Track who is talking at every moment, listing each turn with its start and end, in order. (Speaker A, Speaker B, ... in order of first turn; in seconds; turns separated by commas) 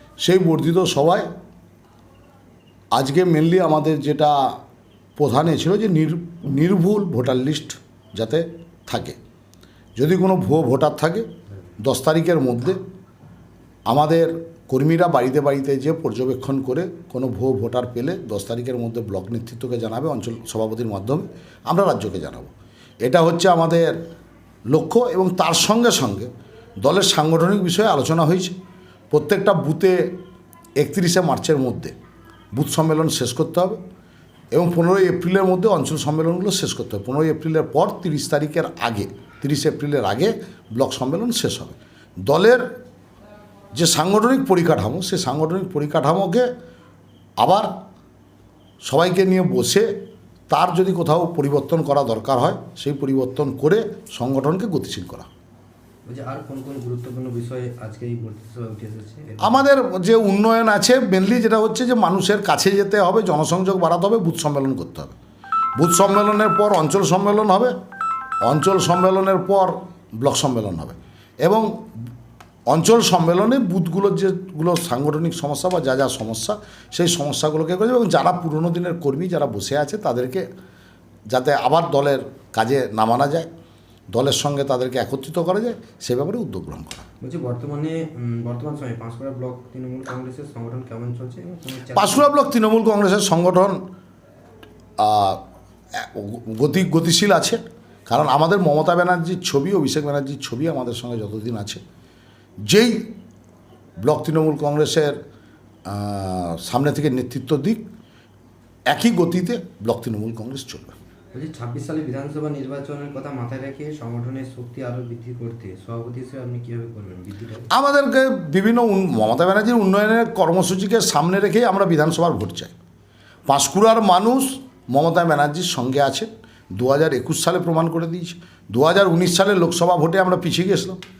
Speaker A: 0.2-1.3, Speaker A: 2.9-4.6, Speaker A: 5.2-9.2, Speaker A: 10.0-11.3, Speaker A: 11.8-12.8, Speaker A: 13.9-22.5, Speaker A: 23.1-24.0, Speaker A: 24.7-26.3, Speaker A: 26.8-28.6, Speaker A: 29.1-30.1, Speaker A: 30.8-31.9, Speaker A: 32.5-33.8, Speaker A: 34.5-42.6, Speaker A: 43.8-46.5, Speaker A: 47.4-47.7, Speaker A: 48.8-49.9, Speaker A: 50.5-55.3, Speaker B: 56.1-59.7, Speaker A: 59.4-65.2, Speaker A: 65.8-67.7, Speaker A: 68.4-71.7, Speaker A: 72.7-80.4, Speaker A: 81.3-83.5, Speaker A: 84.1-87.1, Speaker B: 87.2-92.3, Speaker A: 92.0-93.8, Speaker A: 95.0-95.4, Speaker A: 96.0-101.8, Speaker A: 102.7-103.1, Speaker A: 104.0-105.2, Speaker A: 105.9-107.8, Speaker A: 108.9-111.0, Speaker B: 111.3-117.7, Speaker A: 117.7-122.7, Speaker A: 123.5-131.0